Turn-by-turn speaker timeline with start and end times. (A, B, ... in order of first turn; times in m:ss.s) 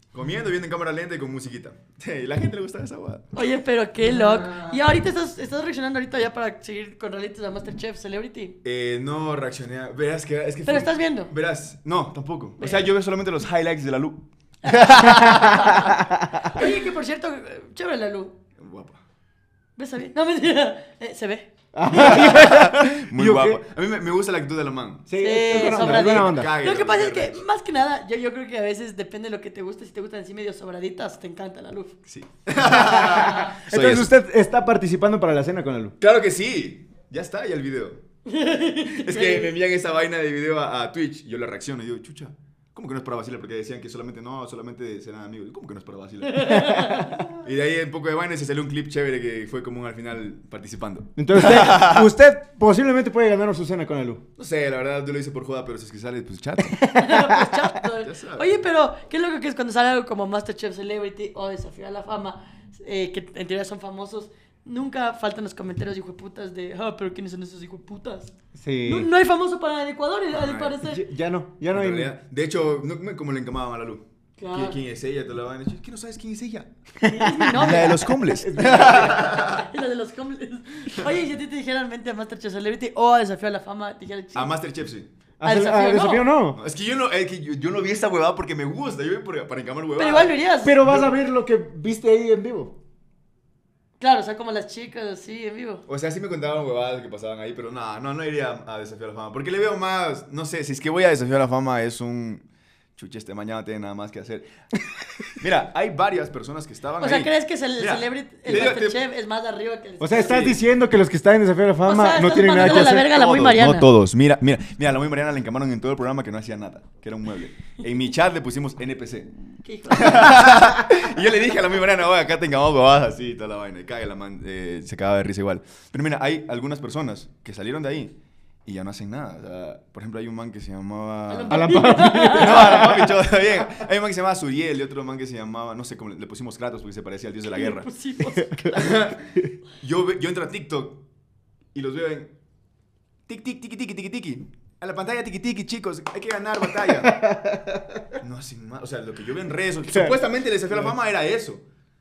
0:00.1-0:03.3 A
0:03.3-0:08.6 B
0:08.6-0:15.8 A
0:10.7-0:11.3 B
0:12.6-0:12.9 B
0:14.6-0:18.4 B
0:15.3-0:16.6 C
0:18.6-0:19.0 A
0:19.8-0:22.4 B
0:21.7-0:23.6 C
0:21.9-0:27.4 A
0:25.1-0:26.5 C
0:25.2-0:32.0 B
0:32.1-0:34.1 A
0:32.6-0:36.0 C
0:36.0-0:38.0 A
0:38.3-0:39.5 B
0:38.9-0:46.7 A
0:46.3-0:47.2 B
0:46.5-0:47.3 C
0:47.4-0:52.1 A
0:51.2-0:54.2 C
0:54.4-0:56.9 A
0:56.6-0:57.7 C
0:56.9-1:08.3 B
0:58.0-0:58.7 A
1:08.6-1:09.1 C
1:08.8-1:11.0 B
1:10.3-1:10.8 A
1:10.8-1:12.1 C
1:11.7-1:16.7 A
1:14.4-1:14.8 B
1:17.0-1:19.3 C
1:17.1-1:24.5 B
1:17.5-1:19.7 A
1:24.3-1:25.1 A
1:25.4-1:26.6 C
1:25.4-1:26.3 B
1:26.6-1:31.1 A
1:30.0-1:30.8 B
1:30.6-1:32.8 C
1:34.0-1:35.8 B
1:35.9-1:42.4 A
1:43.0-1:44.5 A
1:45.4-1:49.0 A
1:47.0-1:50.5 B
1:48.5-1:48.7 C
1:50.0-1:53.8 C
1:50.2-1:50.6 A
1:51.8-1:53.9 B
1:52.5-1:59.3 A
1:59.6-2:00.8 B
1:59.9-2:17.9 A
2:11.3-2:13.0 B
2:11.5-2:13.2 C
2:17.5-2:19.0 B
2:18.4-2:18.7 C
2:18.7-2:21.0 A
2:21.7-2:22.3 A
2:23.3-2:27.2 A
2:26.8-2:28.1 C
2:28.2-2:31.6 A
2:29.9-2:30.2 C
2:30.7-2:30.9 C